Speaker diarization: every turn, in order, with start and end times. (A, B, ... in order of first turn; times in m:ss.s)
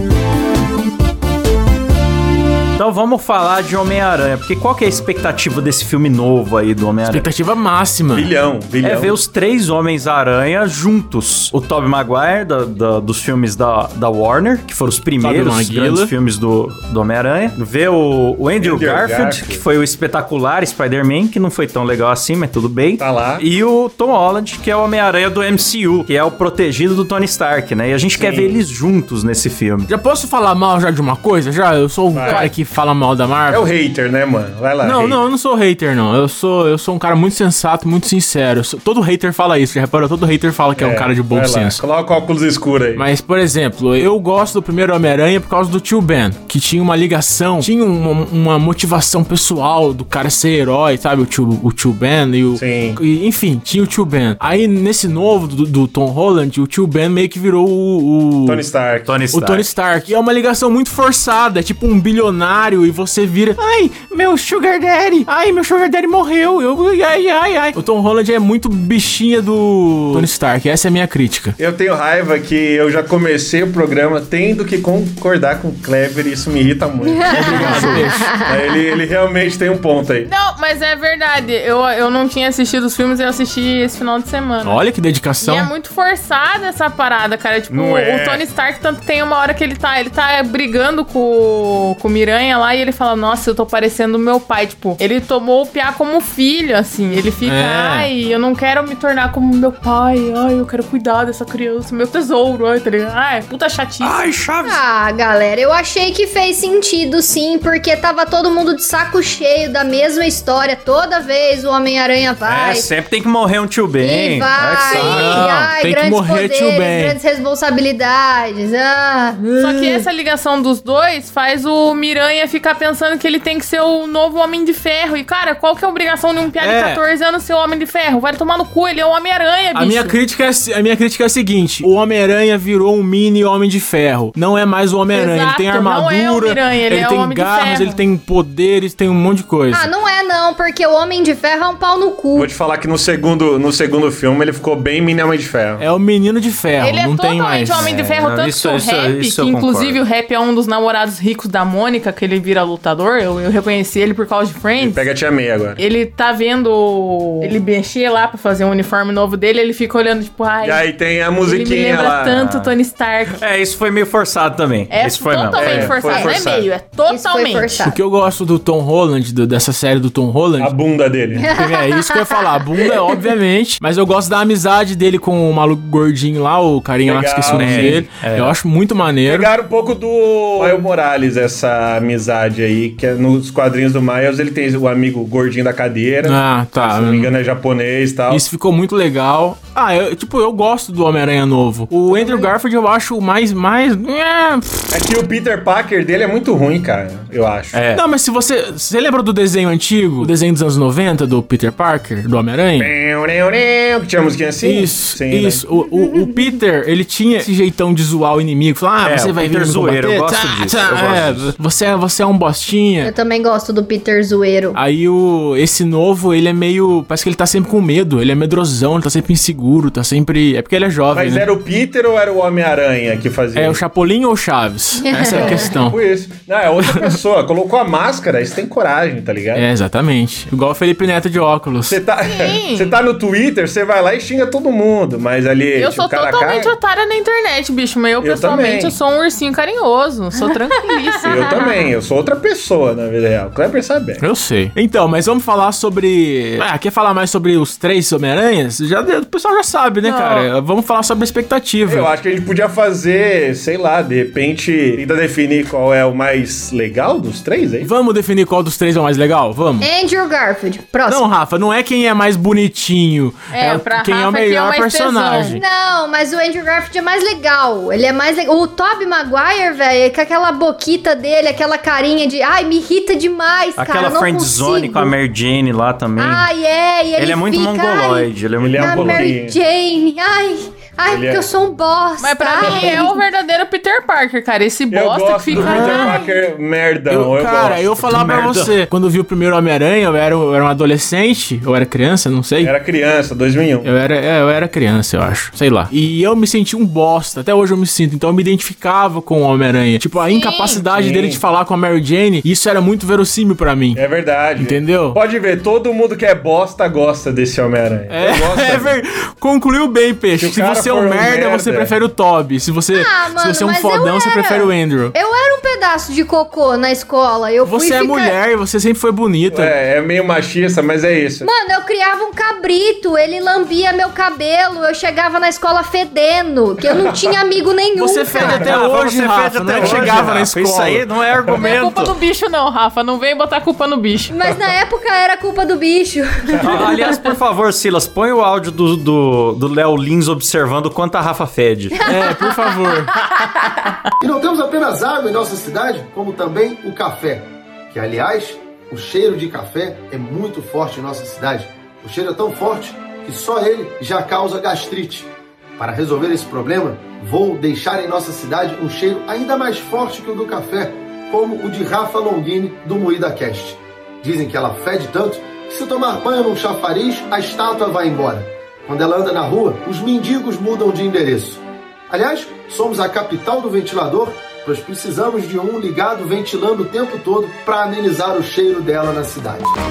0:02.8-0:07.3 A
0:07.1-0:08.3 B
0:08.1-0:09.2 C
0:08.8-0:29.9 A
0:15.2-0:16.1 B
0:18.6-0:19.6 C
0:23.0-0:23.4 C
0:28.2-0:28.6 C
0:29.9-0:33.6 B
0:32.1-0:32.5 C
0:32.2-0:32.5 D
0:33.5-0:35.2 C
0:34.8-0:41.8 B
0:40.8-0:43.1 C
0:43.0-0:58.7 B
0:52.6-0:53.0 C
0:58.5-0:59.2 C
0:59.1-0:59.7 A
0:59.3-1:11.6 B
1:11.6-1:20.3 C
1:17.0-1:18.8 E
1:17.3-1:18.3 B
1:20.2-1:24.8 D
1:24.6-1:25.7 B
1:25.4-1:44.3 D
1:27.7-1:28.4 C
1:37.4-1:38.1 B
1:44.0-1:44.8 A
1:44.6-1:52.9 E
1:52.4-1:55.5 A
1:54.0-1:59.4 E
1:54.9-1:57.2 B
1:59.4-2:00.1 B
1:59.6-2:10.2 D
2:06.6-2:07.0 B
2:09.8-2:19.9 B
2:15.1-2:18.0 D
2:19.7-2:22.5 E
2:22.3-2:25.8 C
2:25.8-2:27.9 B
2:26.8-2:35.1 D
2:27.8-2:30.0 A
2:34.8-2:35.8 C
2:35.8-2:40.9 D
2:40.6-2:42.5 C
2:41.4-2:43.4 D
2:42.4-2:42.7 A
2:43.3-2:46.1 A
2:44.9-2:47.8 D
2:45.6-2:46.6 C
2:46.1-2:46.6 E
2:47.1-2:48.0 E
2:47.8-2:50.8 B
2:50.6-2:51.5 C
2:51.4-2:53.2 E
2:51.5-2:59.5 B
2:57.0-2:58.0 C
2:57.5-2:58.6 A
2:59.2-3:08.4 C
3:06.2-3:07.3 B
3:08.3-3:15.0 B
3:12.1-3:12.5 E
3:14.9-3:17.8 C
3:17.7-3:18.0 A
3:17.9-3:22.9 B
3:22.8-3:25.6 C
3:24.6-3:33.1 B
3:26.2-3:26.5 E
3:29.0-3:31.5 A
3:33.0-3:34.8 E
3:34.8-3:41.5 B
3:41.1-3:43.8 C
3:43.6-3:46.0 B
3:45.0-3:45.7 E
3:45.3-3:49.7 C
3:49.6-3:52.0 B
3:51.9-3:56.7 C
3:52.2-3:53.0 D
3:55.8-4:01.6 D
3:58.2-3:59.0 C
4:00.3-4:01.7 E
4:01.2-4:04.2 C
4:04.2-4:12.1 B
4:10.0-4:10.5 D
4:11.8-4:17.9 C
4:17.8-4:19.9 B
4:19.8-4:21.2 E
4:21.1-4:25.6 B
4:23.5-4:25.6 D
4:25.5-4:35.2 E
4:33.8-4:36.5 A
4:36.2-4:43.2 E
4:37.2-4:39.3 A
4:38.6-4:39.6 C
4:41.1-4:41.5 C
4:42.2-4:46.3 D
4:44.9-4:48.7 C
4:45.5-4:46.2 B
4:47.1-4:52.8 B
4:48.1-4:48.6 A
4:52.6-4:53.9 C
4:53.8-5:04.0 B
5:00.2-5:00.8 D
5:00.9-5:01.4 C
5:03.9-5:09.0 C
5:04.6-5:05.2 B
5:08.1-5:15.1 B
5:10.4-5:11.9 C
5:12.9-5:18.4 E
5:17.6-5:19.7 B
5:19.5-5:21.5 C
5:21.4-5:28.6 E
5:26.9-5:27.3 C
5:27.9-5:31.1 B
5:28.4-5:28.8 C
5:28.5-5:32.1 A
5:29.8-5:30.3 C
5:31.6-5:34.4 D
5:34.3-5:37.3 E
5:36.5-5:36.9 C
5:36.6-5:42.0 A
5:42.1-5:43.1 B
5:42.1-5:43.9 E
5:44.2-6:19.7 F